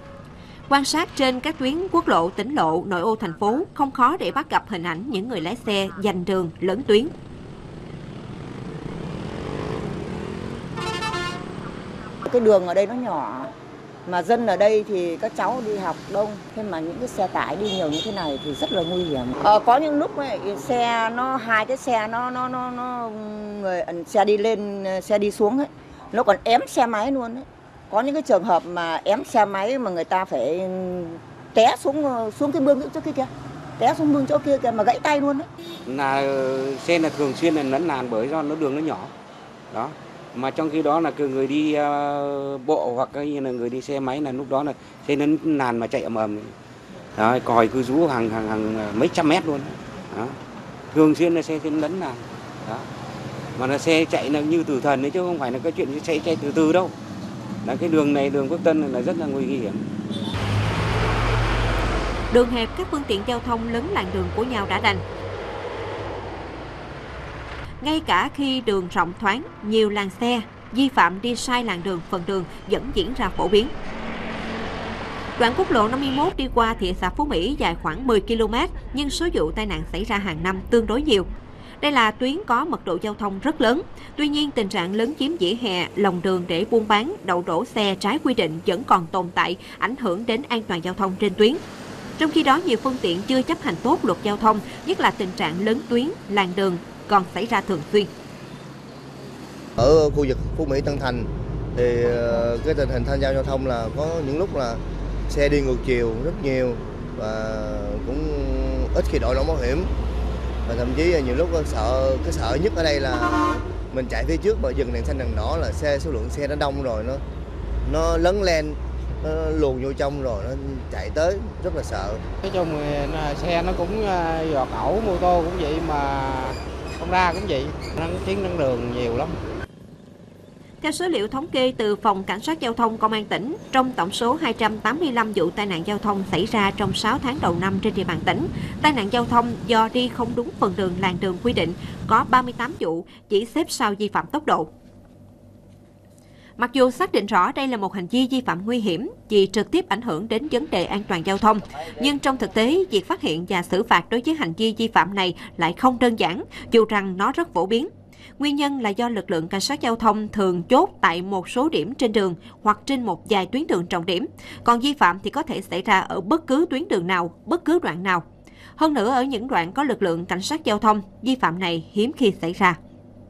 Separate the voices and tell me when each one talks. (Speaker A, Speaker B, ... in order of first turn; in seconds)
Speaker A: 0.7-7.1, 62.3-65.0, 67.8-73.7, 75.4-81.3, 81.8-91.6, 92.2-98.1, 130.8-144.7, 146.6-168.2, 168.8-172.8
Speaker B: 12.3-13.5, 14.1-35.5
Speaker C: 35.9-39.1, 39.7-46.5, 47.2-50.4, 50.9-52.9, 53.6-57.0, 57.6-59.8
Speaker D: 99.8-109.9, 110.7-117.2, 117.8-122.2
Speaker E: 122.4-129.4